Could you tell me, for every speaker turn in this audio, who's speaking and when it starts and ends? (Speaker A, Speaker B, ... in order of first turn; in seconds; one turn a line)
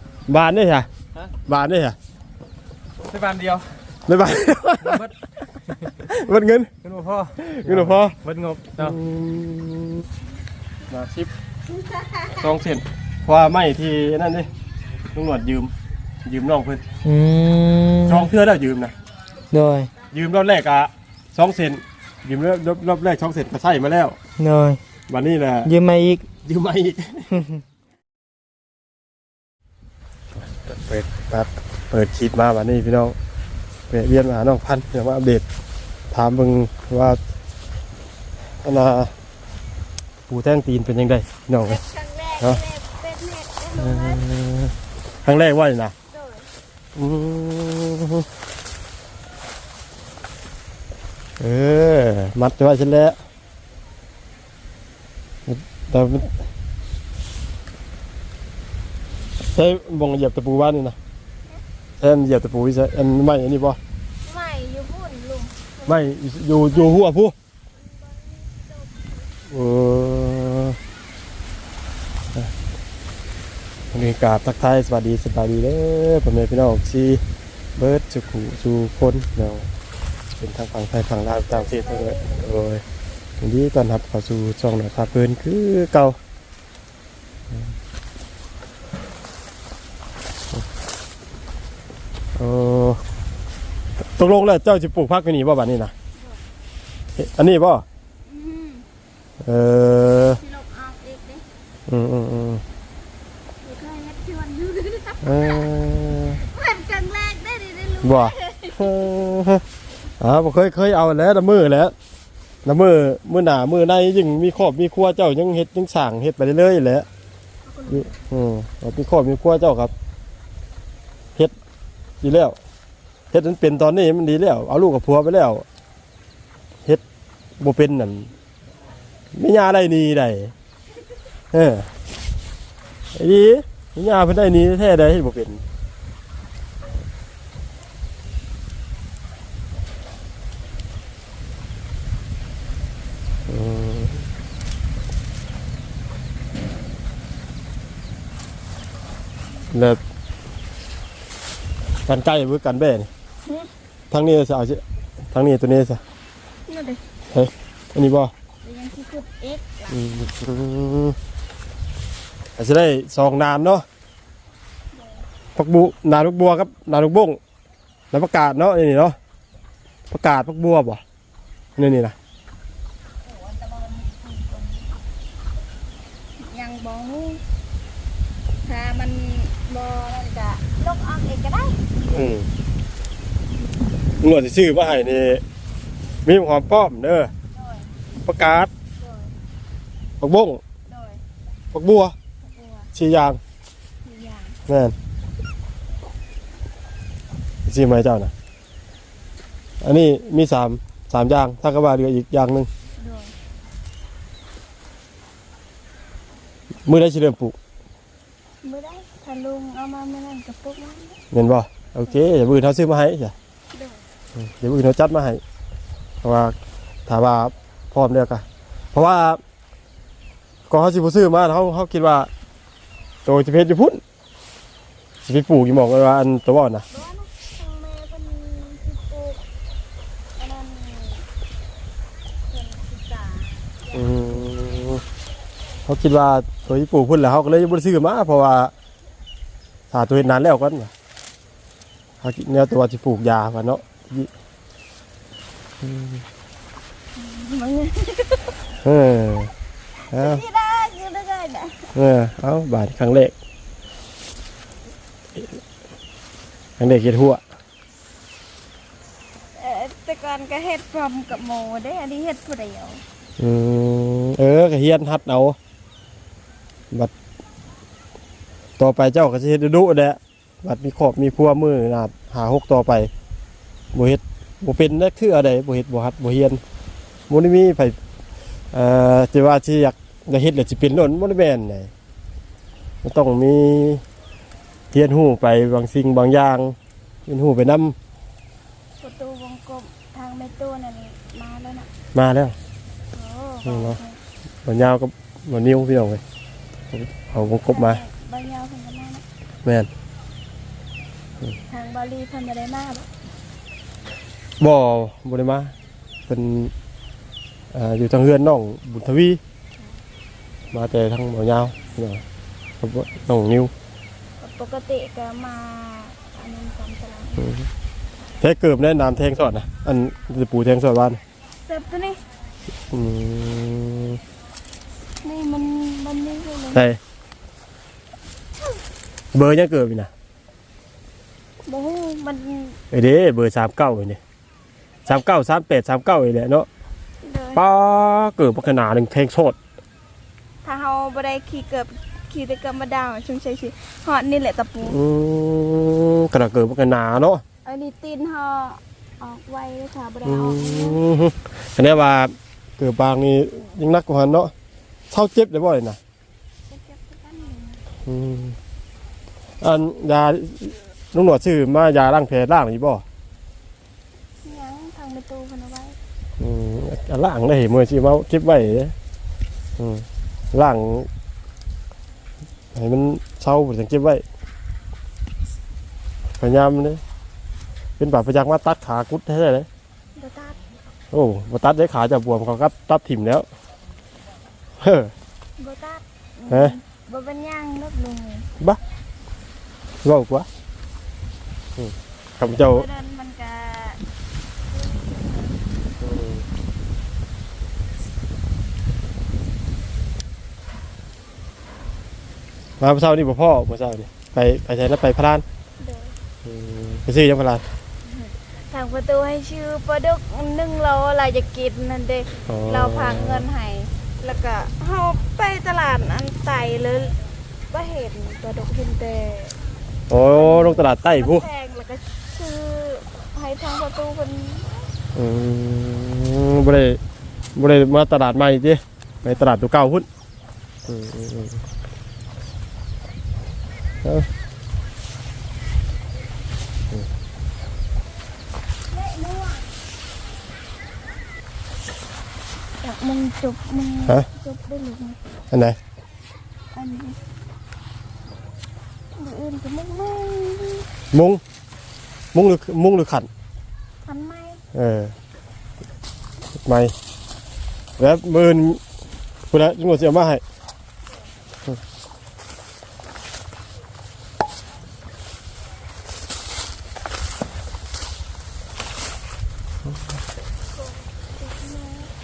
Speaker A: 0.3-0.9
Speaker A: 1.5-2.0
Speaker B: 3.0-3.8
Speaker A: 4.1-5.0
Speaker B: 4.8-5.1
Speaker A: 6.0-6.7
Speaker B: 6.8-9.0
Speaker A: 7.4-8.1
Speaker A: 8.8-10.1
Speaker A: 10.9-11.3
Speaker A: 12.3-14.5
Speaker A: 15.1-15.7
Speaker A: 16.2-16.8
Speaker C: 17.0-18.3
Speaker A: 18.1-18.9
Speaker C: 19.5-19.9
Speaker A: 20.1-24.2
Speaker C: 24.4-24.8
Speaker A: 25.1-25.7
Speaker C: 25.6-26.3
Speaker A: 26.4-27.4
Speaker C: 27.3-27.6
Speaker A: 30.7-33.1
Speaker A: 33.9-35.4
Speaker A: 36.1-37.2
Speaker A: 38.6-39.1
Speaker A: 40.3-41.8
Speaker D: 41.6-44.2
Speaker A: 43.8-45.9
Speaker D: 46.1-46.5
Speaker A: 47.0-48.2
Speaker A: 51.4-53.2
Speaker A: 55.5-56.3
Speaker A: 59.5-61.0
Speaker A: 62.0-63.8
Speaker D: 64.2-66.0
Speaker A: 65.9-67.3
Speaker D: 66.5-67.0
Speaker D: 67.7-69.3
Speaker A: 69.5-70.8
Speaker A: 73.9-77.2
Speaker A: 77.8-79.7
Speaker A: 80.4-82.8
Speaker D: 81.5-82.5
Speaker A: 83.4-86.2
Speaker A: 92.4-93.0
Speaker A: 94.0-95.9
Speaker D: 96.2-96.4
Speaker A: 97.2-97.8
Speaker D: 98.2-98.9
Speaker A: 99.4-100.4
Speaker D: 100.3-101.5
Speaker A: 101.9-102.6
Speaker D: 103.6-105.7
Speaker A: 105.2-106.4
Speaker D: 106.4-108.9
Speaker A: 108.0-109.6
Speaker A: 110.2-111.9
Speaker A: 112.7-117.1
Speaker D: 117.7-118.1
Speaker A: 117.9-119.9
Speaker A: 122.2-122.6
Speaker A: 123.3-125.7
Speaker A: 127.6-128.3
Speaker A: 129.3-130.5
Speaker A: 131.5-131.9
Speaker A: 133.2-135.6
Speaker A: 143.5-144.2
Speaker A: 149.7-150.0
Speaker A: 152.1-153.1
Speaker D: 153.4-153.7
Speaker A: 154.1-156.0
Speaker D: 156.7-157.0
Speaker A: 157.3-158.3
Speaker D: 158.6-160.3
Speaker A: 159.9-161.2
Speaker A: 162.6-163.8
Speaker D: 164.9-165.2
Speaker A: 165.6-167.4
Speaker A: 168.1-169.2
Speaker A: 170.1-171.0
Speaker A: 171.8-172.2
Speaker D: 173.2-174.9
Speaker D: 176.4-177.4
Speaker D: 178.7-181.8
Speaker A: 182.1-182.5
Speaker A: 184.2-185.4
Speaker A: 186.2-187.3
Speaker D: 187.5-187.9
Speaker A: 188.2-188.7
Speaker D: 189.0-189.3
Speaker A: 190.2-190.6
Speaker D: 190.9-191.2
Speaker A: 191.7-192.1
Speaker D: 192.4-192.9
Speaker A: 192.9-193.4
Speaker D: 194.0-194.6
Speaker A: 194.7-194.9
Speaker A: 197.7-198.3
Speaker A: 199.8-202.7
Speaker D: 203.0-203.3
Speaker A: 206.9-207.6
Speaker D: 208.6-211.2
Speaker A: 211.3-213.3
Speaker D: 213.7-214.1
Speaker A: 214.3-215.4
Speaker A: 216.2-216.6
Speaker A: 217.1-219.4
Speaker A: 220.7-222.3
Speaker A: 223.2-224.0
Speaker A: 225.2-226.8
Speaker D: 226.9-229.4
Speaker D: 230.4-231.3
Speaker D: 232.5-234.9
Speaker A: 233.9-235.0
Speaker A: 235.9-238.7
Speaker A: 239.9-240.9
Speaker A: 242.2-244.3
Speaker A: 245.8-246.2
Speaker D: 247.2-248.6
Speaker A: 248.8-249.5
Speaker A: 250.1-250.4
Speaker D: 250.1-251.9
Speaker A: 251.9-253.3
Speaker A: 256.8-257.4
Speaker D: 259.6-263.0
Speaker A: 263.4-265.6
Speaker A: 268.8-273.1
Speaker A: 273.9-276.6
Speaker A: 277.3-277.9
Speaker A: 278.7-281.9
Speaker A: 283.0-284.0
Speaker A: 284.9-286.8
Speaker A: 287.3-287.9
Speaker D: 289.0-291.9
Speaker A: 292.1-292.6
Speaker D: 293.1-294.2
Speaker A: 293.6-294.0
Speaker A: 294.6-296.2
Speaker A: 296.9-298.0
Speaker D: 297.7-299.2
Speaker D: 301.7-303.1
Speaker A: 304.6-305.7
Speaker A: 306.3-306.7
Speaker A: 307.7-309.4
Speaker A: 310.7-312.2
Speaker A: 312.8-313.7
Speaker D: 314.4-317.4
Speaker A: 317.4-317.7
Speaker A: 318.4-321.2
Speaker D: 321.6-322.2
Speaker A: 322.9-324.2
Speaker D: 325.2-326.8
Speaker A: 326.7-327.0
Speaker A: 329.3-330.1
Speaker D: 331.7-332.8
Speaker A: 332.9-334.2
Speaker A: 335.1-336.7
Speaker D: 337.2-337.6
Speaker A: 337.6-339.6
Speaker D: 340.6-345.0
Speaker A: 344.8-347.4
Speaker D: 347.6-351.0
Speaker A: 350.2-354.5
Speaker A: 355.1-356.0
Speaker D: 356.7-357.8
Speaker A: 358.1-358.6
Speaker A: 359.6-363.0
Speaker D: 364.4-366.0
Speaker A: 366.4-368.9
Speaker A: 369.8-371.1
Speaker A: 372.7-374.2
Speaker A: 376.4-377.0
Speaker A: 378.0-379.7
Speaker D: 380.2-380.6
Speaker A: 381.1-383.4
Speaker A: 384.8-385.1
Speaker D: 385.6-388.5
Speaker A: 386.5-386.7
Speaker A: 390.0-390.5
Speaker A: 391.8-392.9
Speaker D: 392.5-394.0
Speaker D: 394.7-395.6
Speaker A: 396.0-396.4
Speaker A: 402.8-405.4
Speaker D: 405.8-406.1
Speaker A: 406.4-407.6
Speaker D: 408.0-417.1
Speaker A: 412.5-413.5
Speaker D: 417.7-419.6
Speaker A: 420.1-421.4
Speaker D: 420.3-424.8
Speaker A: 425.1-427.0
Speaker A: 427.6-430.1
Speaker A: 430.9-431.6
Speaker D: 438.9-439.7
Speaker D: 442.8-445.2
Speaker A: 445.5-445.8
Speaker D: 446.7-447.2
Speaker D: 449.1-450.9
Speaker A: 451.1-451.4
Speaker A: 452.3-453.3
Speaker D: 454.0-454.6
Speaker A: 454.7-455.1
Speaker A: 456.6-456.9
Speaker A: 458.0-458.8
Speaker A: 459.5-460.4
Speaker D: 470.8-472.1